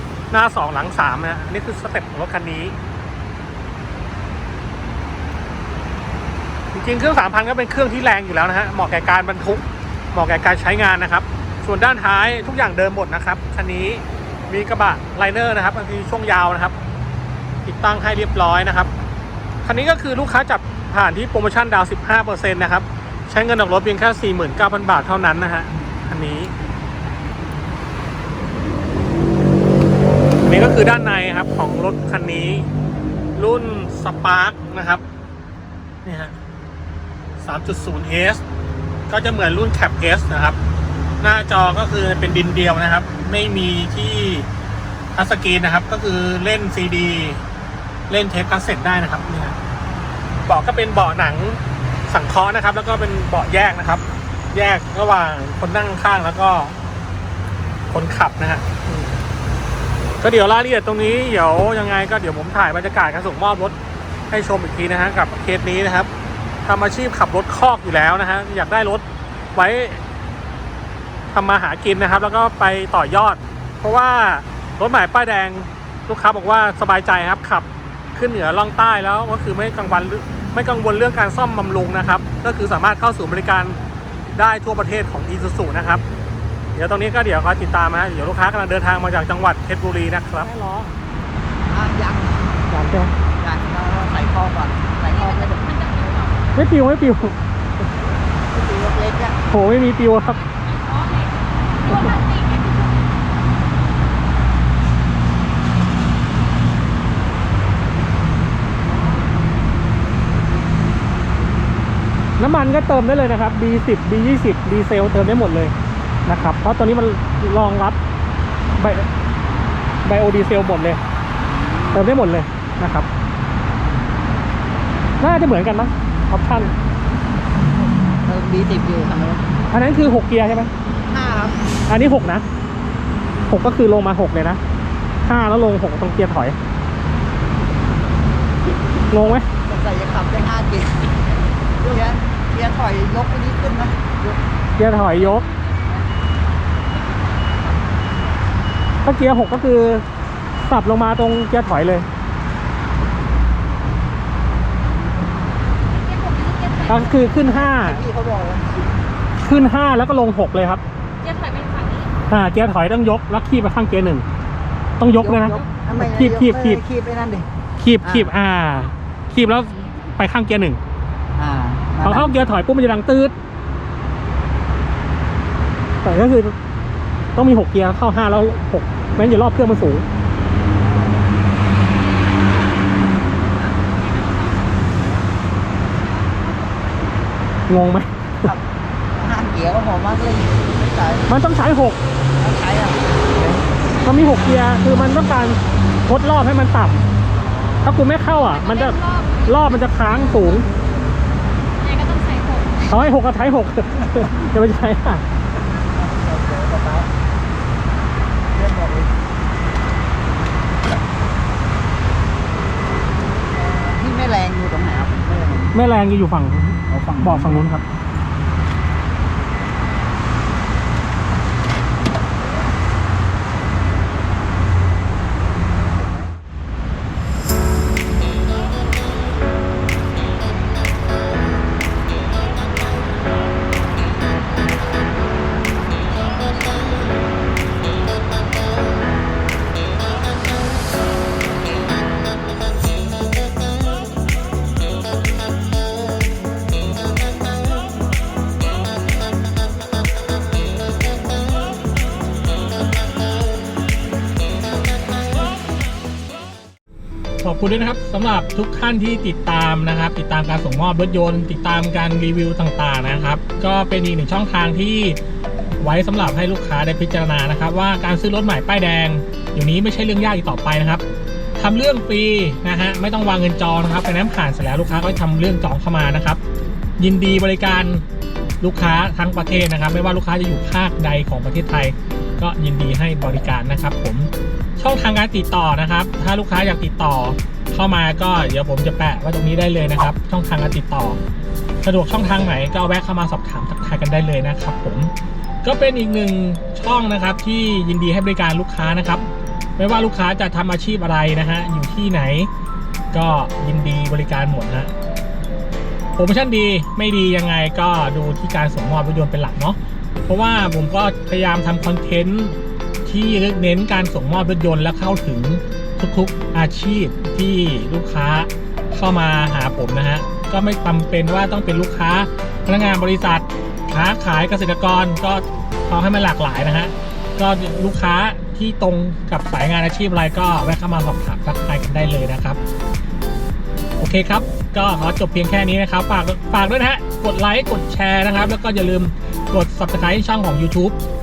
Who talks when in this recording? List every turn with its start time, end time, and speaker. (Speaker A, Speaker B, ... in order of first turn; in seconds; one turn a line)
Speaker A: 0.3-2.8
Speaker A: 6.7-16.8
Speaker A: 17.6-18.9
Speaker A: 19.6-26.5
Speaker A: 30.4-32.7
Speaker A: 33.4-35.0
Speaker A: 36.0-36.4
Speaker A: 37.4-38.4
Speaker A: 39.1-40.6
Speaker A: 41.2-44.5
Speaker A: 45.1-47.4
Speaker A: 48.1-49.6
Speaker A: 50.4-56.8
Speaker A: 57.9-59.2
Speaker A: 60.2-63.8
Speaker A: 64.3-66.1
Speaker A: 66.6-69.0
Speaker A: 69.5-70.0
Speaker A: 71.3-83.8
Speaker A: 84.4-86.0
Speaker A: 86.8-90.9
Speaker B: 91.7-92.4
Speaker A: 92.7-93.1
Speaker B: 93.4-95.6
Speaker C: 95.0-96.5
Speaker A: 96.5-97.4
Speaker B: 98.5-99.4
Speaker A: 99.5-100.4
Speaker C: 100.4-103.0
Speaker A: 112.4-115.7
Speaker A: 116.2-118.0
Speaker A: 118.8-119.1
Speaker A: 120.0-121.0
Speaker B: 121.6-122.0
Speaker A: 121.9-123.1
Speaker A: 125.2-126.7
Speaker B: 128.1-129.5
Speaker A: 129.7-130.7
Speaker B: 131.1-131.6
Speaker A: 131.9-132.4
Speaker A: 133.5-134.6
Speaker A: 135.2-136.6
Speaker A: 139.1-139.5
Speaker B: 139.1-141.1
Speaker B: 141.8-144.4
Speaker A: 144.8-145.4
Speaker C: 145.2-146.2
Speaker C: 146.8-148.1
Speaker A: 149.0-150.1
Speaker A: 150.6-152.1
Speaker C: 155.9-157.4
Speaker A: 156.9-158.0
Speaker B: 157.4-158.9
Speaker A: 159.4-160.8
Speaker C: 161.2-162.1
Speaker A: 162.3-164.2
Speaker A: 165.0-166.8
Speaker B: 165.2-167.5
Speaker A: 167.8-170.8
Speaker B: 168.0-168.3
Speaker B: 171.4-172.3
Speaker A: 172.0-173.3
Speaker A: 176.0-176.6
Speaker A: 177.3-180.1
Speaker B: 180.8-181.3
Speaker C: 183.7-184.9
Speaker C: 186.1-187.1
Speaker A: 187.7-188.5
Speaker B: 188.4-191.3
Speaker A: 191.3-192.0
Speaker B: 192.4-193.3
Speaker A: 193.4-197.1
Speaker B: 197.6-197.9
Speaker A: 197.8-200.7
Speaker C: 198.4-200.6
Speaker C: 201.8-202.8
Speaker A: 202.8-205.2
Speaker B: 205.9-207.1
Speaker B: 208.5-209.1
Speaker B: 213.5-215.7
Speaker A: 215.7-217.8
Speaker B: 216.9-217.6
Speaker A: 257.4-265.2
Speaker A: 265.8-271.0
Speaker A: 271.6-276.4
Speaker A: 277.0-278.0
Speaker A: 278.6-291.2
Speaker A: 291.8-295.1
Speaker A: 295.6-302.5
Speaker A: 303.1-304.9
Speaker A: 306.1-332.6
Speaker A: 334.0-341.0